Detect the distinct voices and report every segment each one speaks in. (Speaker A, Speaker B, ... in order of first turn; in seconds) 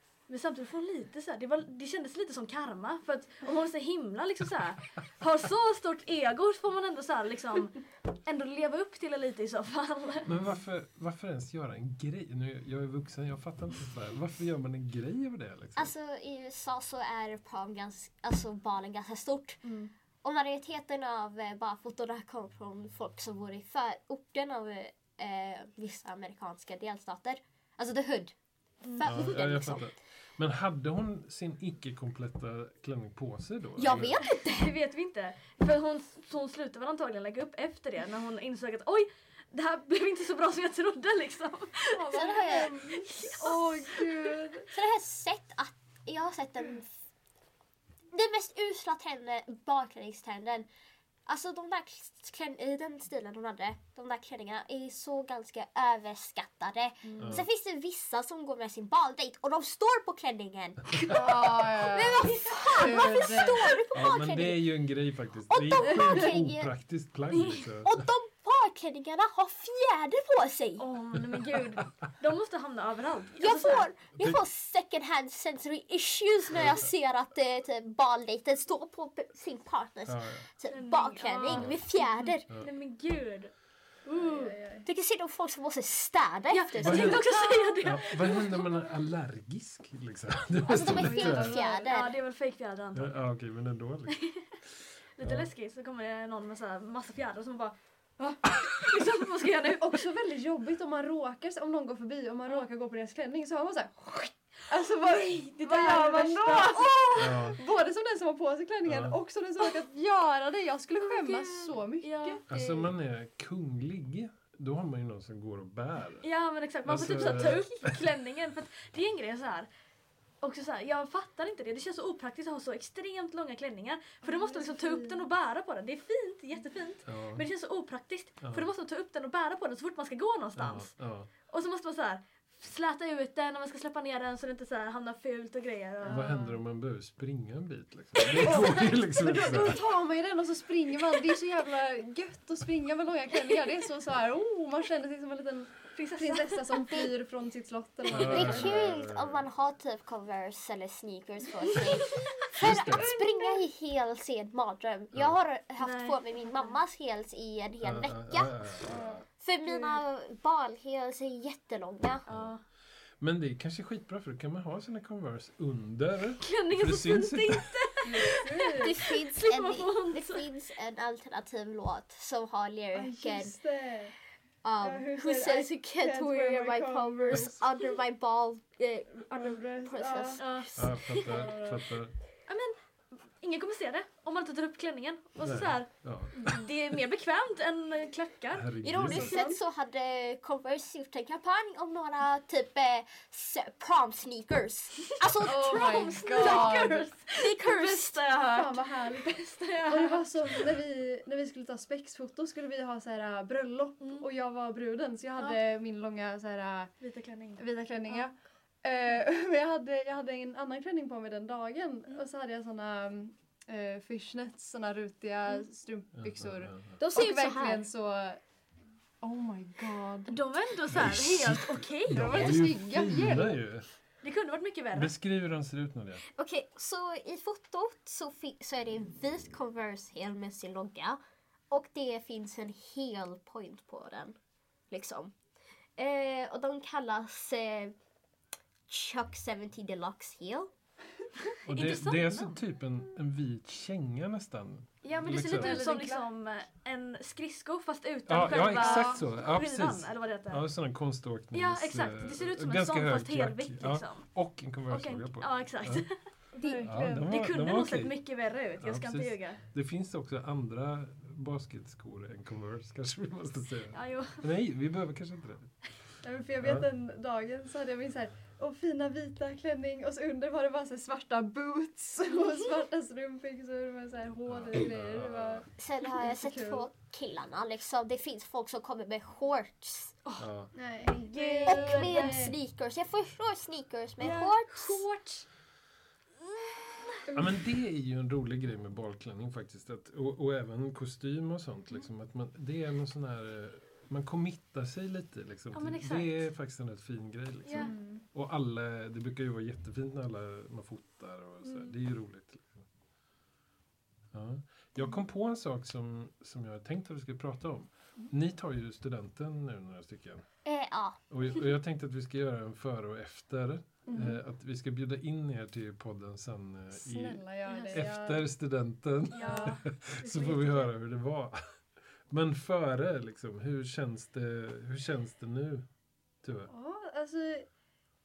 Speaker A: 0.3-10.3, 19.6-19.9, 34.3-42.3, 42.9-44.4, 57.0-57.4, 67.3-67.6, 70.8-73.9, 80.7-84.5, 86.5-88.7, 91.2-93.1, 94.1-94.6, 95.1-100.1, 105.0-107.4, 111.0-112.4, 116.2-119.7, 120.4-136.4, 138.2-138.8, 145.9-147.1, 155.8-156.8, 162.3-162.6, 166.4-170.4, 180.4-181.5, 182.5-188.7, 195.4-200.7, 204.0-204.2, 207.0-208.3, 220.3-222.7, 224.2-225.1, 241.6-242.5, 245.0-250.6, 251.5-254.3, 254.9-259.6, 263.9-264.4, 281.0-282.5, 284.2-285.5, 286.6-287.2, 295.7-296.4, 297.6-297.9, 301.6-301.9, 317.6-318.1, 319.3-320.9
Speaker B: 10.2-15.9, 29.0-34.2, 57.2-57.5, 63.9-68.0, 71.2-71.7, 76.5-76.9, 80.0-80.5, 81.5-81.8, 86.8-91.6, 92.9-95.5, 107.2-107.6, 108.8-109.2, 112.5-116.3, 116.8-118.0, 127.0-127.5, 128.4-128.7, 130.6-131.3, 136.1-139.9, 148.1-149.4, 152.6-153.1, 157.8-159.2, 162.3-162.6, 163.2-168.0, 180.8-182.2, 185.4-187.0, 188.5-189.4, 216.2-217.0, 220.9-224.0, 224.9-226.2, 241.7-245.8, 248.3-256.1, 256.8-266.9, 274.5-275.6, 280.4-280.7, 287.3-302.9, 304.3-310.5, 311.3-325.9, 326.4-326.7
Speaker C: 15.8-19.6, 20.2-29.9, 33.8-34.7, 42.1-43.4, 44.7-46.9, 48.1-50.7, 51.2-64.6, 65.5-66.7, 67.8-70.8, 73.4-82.5, 84.8-87.3, 90.7-92.1, 148.1-162.3, 168.8-173.6, 174.6-181.2, 188.8-198.2, 217.0-217.8, 226.3-234.4, 234.9-235.3, 236.0-237.9, 238.9-240.7, 275.8-280.1, 281.6-285.0, 310.6-311.2
Speaker D: 41.9-44.7, 61.1-63.8, 84.1-84.9, 87.4-87.8, 90.8-92.0, 99.6-112.9, 124.2-125.2, 136.0-136.6, 138.4-148.8, 152.6-153.6, 158.8-160.0, 168.0-168.9, 172.9-174.2, 174.8-177.6, 179.3-180.4, 181.2-181.8, 189.0-189.6, 195.4-197.1, 198.4-206.9, 207.6-218.4, 219.2-220.6, 222.1-223.6, 245.3-246.2, 248.5-249.2, 256.6-257.3, 266.2-276.9, 280.7-282.5, 287.3-287.5, 297.7-298.2, 314.1-314.4, 316.9-318.4, 319.4-319.8, 326.7-327.7